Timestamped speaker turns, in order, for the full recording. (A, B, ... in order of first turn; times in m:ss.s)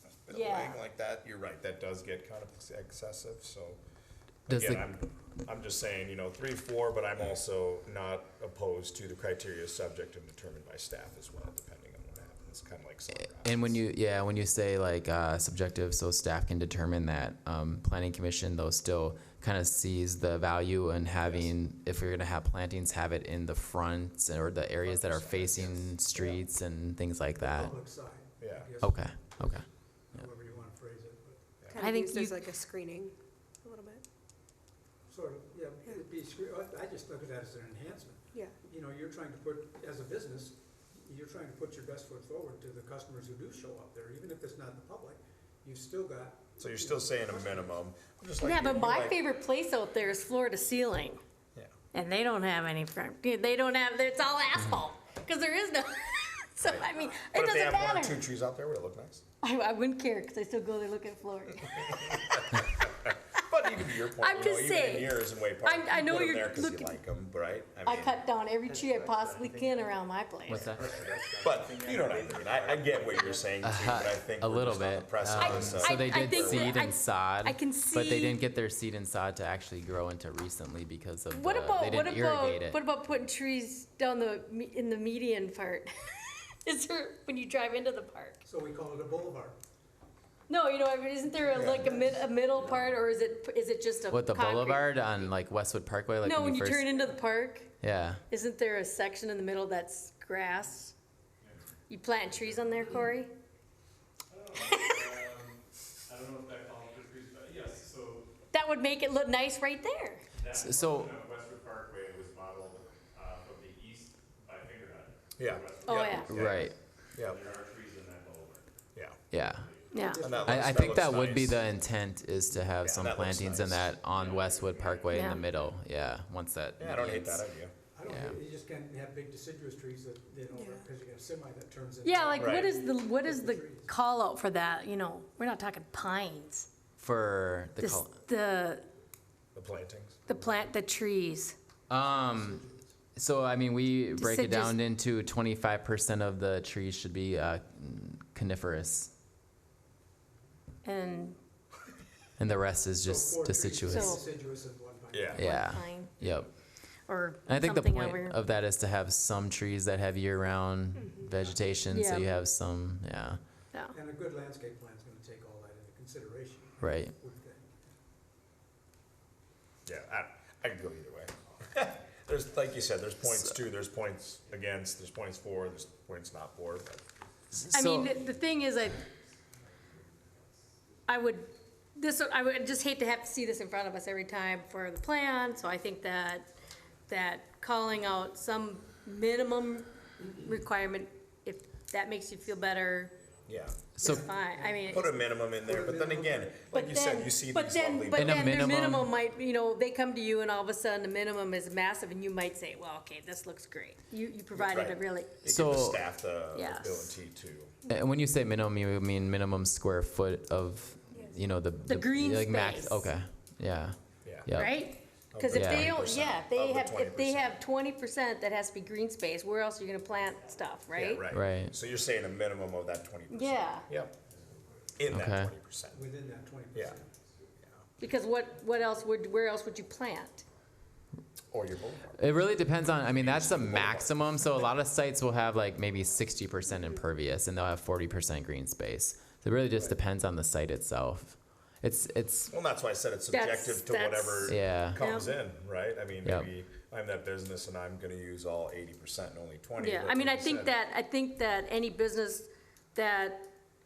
0:00.2-0:03.8 A
0:00.3-0:00.8 B
0:04.5-0:13.8 A
0:04.5-0:04.8 C
0:13.1-0:27.8 C
0:21.2-0:21.5 A
0:24.8-0:25.9 A
0:26.1-0:26.4 D
0:27.4-0:31.4 D
0:28.4-0:28.7 A
0:28.8-0:29.6 C
0:31.7-0:34.0 E
0:31.8-0:32.4 B
0:35.1-0:47.8 D
0:46.6-0:49.2 A
0:48.4-0:51.2 B
0:51.9-0:58.2 B
0:56.6-0:59.2 A
0:59.4-1:02.7 B
1:03.3-1:08.2 A
1:03.4-1:07.0 B
1:07.8-1:10.7 B
1:08.6-1:09.9 F
1:10.5-1:10.9 C
1:10.5-1:13.6 F
1:11.4-1:16.8 A
1:13.6-1:22.8 C
1:15.3-1:18.4 B
1:21.3-1:28.4 B
1:28.4-1:29.6 D
1:30.5-1:35.1 B
1:31.5-1:32.2 D
1:31.5-1:31.9 A
1:34.1-1:36.8 C
1:36.2-1:37.7 B
1:37.8-1:38.2 C
1:38.3-1:40.9 B
1:41.9-1:43.3 B
1:44.3-1:48.3 F
1:44.6-1:45.2 B
1:48.5-1:50.2 B
1:50.3-1:58.6 F
1:50.5-1:51.1 C
1:55.4-1:56.6 A
1:55.8-1:56.3 B
1:56.3-1:56.7 C
1:57.2-1:57.4 A
1:59.3-1:59.7 C
1:59.3-1:59.9 F
1:59.9-2:00.2 B
2:00.0-2:00.7 D
2:00.1-2:01.6 A
2:00.4-2:07.5 C
2:02.8-2:03.9 A
2:03.9-2:05.7 F
2:05.1-2:05.4 B
2:06.8-2:07.7 A
2:07.9-2:13.9 D
2:08.0-2:08.4 C
2:10.5-2:10.9 E
2:12.0-2:16.7 B
2:12.4-2:12.7 A
2:17.0-2:18.1 C
2:17.8-2:18.9 B
2:19.5-2:20.2 A
2:20.3-2:21.6 B
2:21.9-2:22.6 C
2:22.1-2:22.9 D
2:23.2-2:29.1 C
2:24.2-2:24.8 B
2:30.8-2:31.4 B
2:32.4-2:34.2 C
2:33.0-2:35.6 D
2:33.9-2:34.2 B
2:35.1-2:35.5 A
2:35.4-2:36.5 C
2:35.4-2:36.1 B
2:37.1-2:38.4 B
2:37.5-2:43.4 C
2:40.9-2:41.3 E
2:41.9-2:42.3 B
2:43.9-2:47.8 D
2:46.8-2:47.1 C
2:49.8-2:57.0 A
2:57.5-2:58.2 C
2:57.7-2:59.0 B
2:58.3-2:58.6 F
3:01.1-3:06.5 B
3:07.1-3:13.1 B
3:13.5-3:13.8 A
3:14.0-3:14.3 C
3:14.0-3:15.2 B
3:14.0-3:16.6 D
3:14.9-3:18.6 A
3:16.7-3:25.4 B
3:18.1-3:19.1 C
3:24.6-3:27.7 A
3:25.4-3:26.0 C
3:26.5-3:27.2 B
3:27.9-3:34.8 C
3:31.1-3:31.4 E
3:31.8-3:33.1 B
3:34.2-3:34.6 A
3:34.5-3:41.3 B
3:35.3-3:37.6 A
3:35.5-3:36.0 C
3:40.9-3:44.1 A
3:41.3-3:41.7 C
3:43.3-3:43.9 B
3:45.0-3:46.0 A
3:45.1-3:45.5 C
3:45.9-3:47.1 D
3:48.0-3:50.4 B
3:51.5-3:52.2 A
3:52.2-4:02.5 C
3:53.1-3:54.7 A
4:02.5-4:10.7 A
4:03.3-4:05.3 B
4:04.4-4:05.0 C
4:06.2-4:06.5 C
4:09.8-4:13.5 B